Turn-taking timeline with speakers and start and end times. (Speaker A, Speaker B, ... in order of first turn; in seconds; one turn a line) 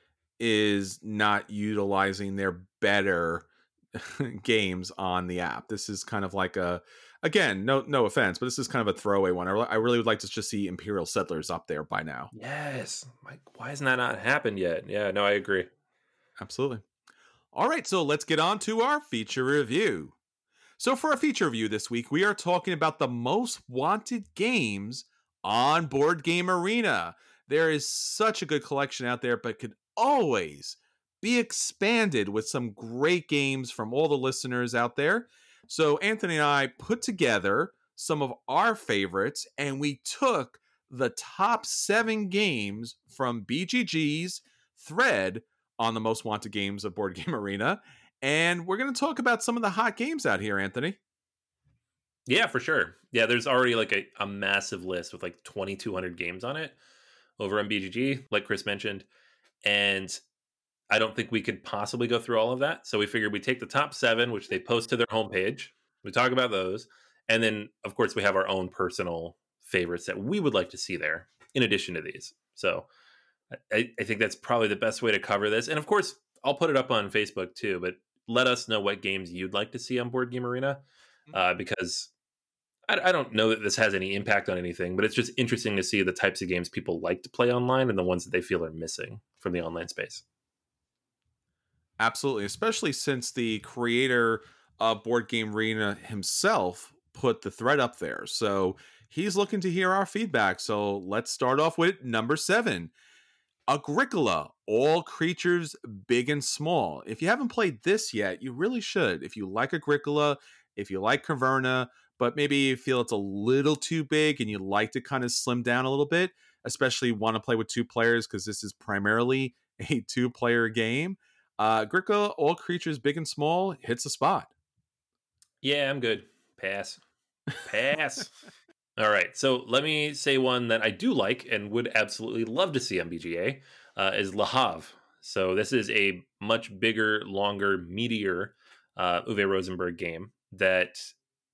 Speaker A: 0.4-12.3
Speaker B: 12.3-15.7
Speaker A: 16.4-16.8
Speaker A: 17.5-20.1
Speaker A: 20.8-51.0
Speaker B: 52.3-56.8
Speaker B: 57.4-59.1
Speaker B: 59.6-60.2
Speaker B: 60.9-72.9
Speaker B: 73.5-82.1
Speaker B: 82.9-90.2
Speaker A: 92.0-102.9
Speaker A: 103.7-124.5
Speaker B: 125.6-127.0
Speaker B: 127.6-128.3
Speaker B: 129.0-141.1